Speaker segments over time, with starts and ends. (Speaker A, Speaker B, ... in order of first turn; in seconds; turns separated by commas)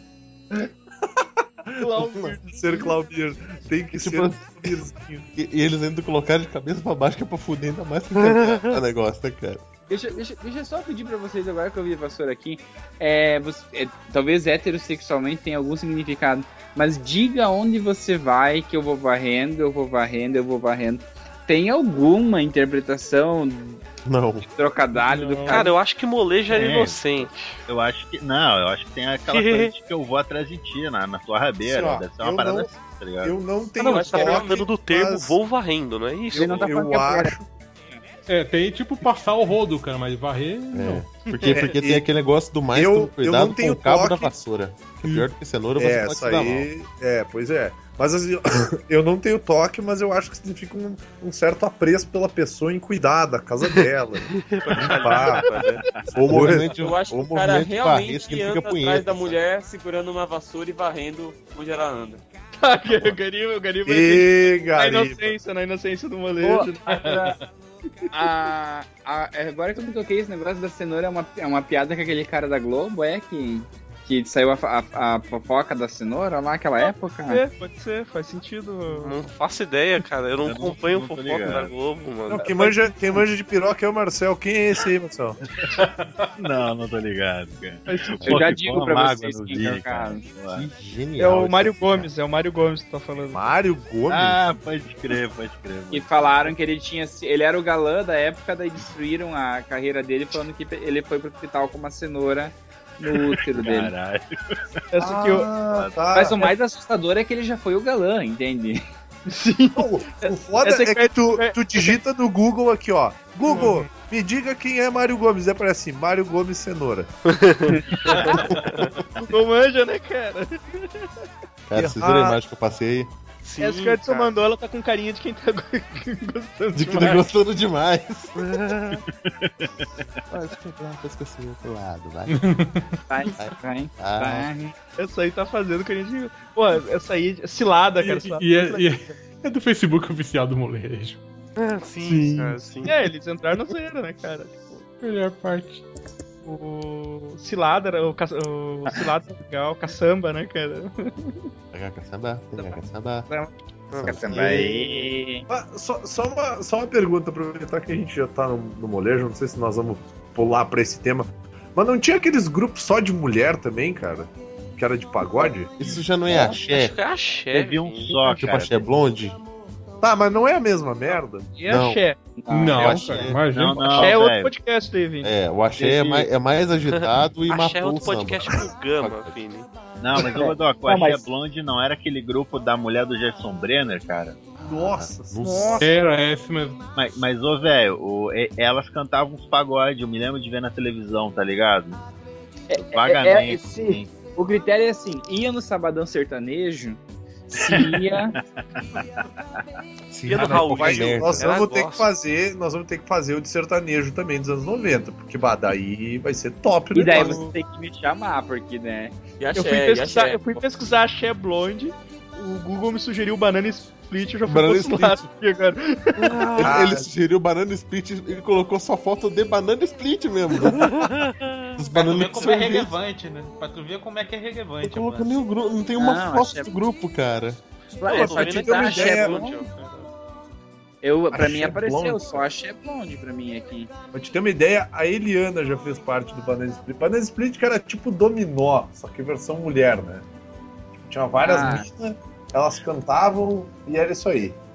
Speaker A: 0.5-2.0, Speaker B: 1.8-3.0, Speaker A: 2.5-5.3, Speaker C: 3.9-4.8, Speaker C: 5.3-9.6, Speaker D: 8.2-8.8, Speaker E: 9.9-23.8, Speaker C: 24.0-24.4, Speaker E: 24.5-25.8, Speaker F: 24.9-25.7, Speaker D: 25.5-27.6, Speaker G: 26.5-27.0, Speaker G: 27.7-33.4, Speaker D: 29.3-29.7, Speaker A: 31.6-35.4, Speaker H: 33.8-34.6, Speaker D: 33.8-36.7, Speaker A: 36.3-37.5, Speaker E: 36.3-37.3, Speaker F: 38.3-41.1, Speaker C: 40.7-46.7, Speaker B: 41.3-41.7, Speaker A: 41.4-42.0, Speaker A: 42.7-44.3, Speaker A: 45.8-55.5, Speaker D: 54.3-55.8, Speaker C: 56.1-59.4, Speaker A: 56.3-56.7, Speaker H: 56.7-62.2, Speaker B: 62.6-67.3, Speaker A: 63.9-65.3, Speaker E: 68.1-77.4, Speaker B: 77.3-79.2, Speaker D: 79.0-82.5, Speaker G: 80.4-81.7, Speaker A: 82.3-85.4, Speaker B: 82.4-82.8, Speaker G: 85.6-90.7, Speaker B: 87.9-88.5, Speaker E: 88.3-90.2, Speaker C: 90.5-92.1, Speaker B: 91.2-93.4, Speaker A: 93.3-94.4, Speaker G: 94.1-96.5, Speaker E: 95.9-103.9, Speaker G: 103.1-104.6, Speaker B: 104.9-105.6, Speaker A: 105.0-106.5, Speaker G: 105.7-106.2, Speaker E: 106.1-108.8, Speaker B: 109.3-111.9, Speaker A: 109.7-117.1, Speaker B: 113.4-113.9, Speaker D: 117.3-117.7, Speaker B: 118.0-120.8, Speaker C: 121.7-123.1, Speaker A: 121.8-122.4, Speaker D: 123.4-124.3, Speaker B: 123.6-127.2, Speaker C: 126.7-128.3, Speaker D: 128.4-129.0, Speaker G: 129.2-130.0, Speaker C: 130.3-132.4, Speaker F: 132.3-132.9, Speaker E: 133.1-134.7, Speaker C: 133.4-134.5, Speaker B: 135.0-138.4, Speaker A: 138.0-139.2, Speaker F: 138.4-141.2, Speaker D: 141.6-143.0, Speaker C: 142.0-142.8, Speaker B: 142.8-144.8, Speaker F: 145.0-145.8, Speaker B: 146.4-151.3, Speaker C: 151.7-153.3, Speaker E: 152.6-155.4, Speaker C: 153.9-155.1, Speaker A: 155.5-165.7, Speaker C: 165.8-166.9, Speaker D: 166.4-168.1, Speaker G: 167.5-168.8, Speaker C: 168.2-169.4, Speaker A: 170.0-171.5, Speaker B: 171.6-172.2, Speaker C: 171.7-172.0, Speaker E: 172.4-172.9, Speaker F: 172.5-174.1, Speaker C: 172.8-173.4, Speaker G: 173.0-174.5, Speaker B: 174.0-175.3, Speaker C: 175.2-179.4, Speaker G: 175.8-176.3, Speaker D: 176.9-179.7, Speaker G: 180.0-184.4, Speaker E: 180.3-181.2, Speaker C: 184.6-185.9, Speaker A: 184.7-185.9, Speaker F: 185.8-186.8, Speaker G: 186.9-192.0, Speaker E: 192.7-197.0, Speaker G: 192.7-194.1, Speaker E: 197.5-198.3, Speaker G: 197.6-199.2, Speaker C: 200.1-201.5, Speaker D: 200.2-202.1, Speaker A: 200.3-207.4, Speaker E: 206.9-209.1, Speaker B: 207.0-207.5, Speaker H: 209.4-210.5, Speaker B: 209.5-216.5, Speaker C: 214.4-215.2, Speaker D: 216.2-216.7, Speaker C: 216.6-221.2, Speaker A: 216.6-217.1, Speaker D: 220.6-221.7, Speaker C: 221.8-222.9, Speaker I: 221.9-225.3, Speaker C: 224.8-227.6, Speaker E: 226.0-226.7, Speaker E: 228.0-229.6, Speaker A: 228.0-229.5, Speaker D: 228.1-229.7, Speaker E: 231.0-233.9, Speaker A: 231.3-232.4, Speaker A: 234.1-240.2, Speaker A: 241.0-244.6, Speaker E: 241.4-241.9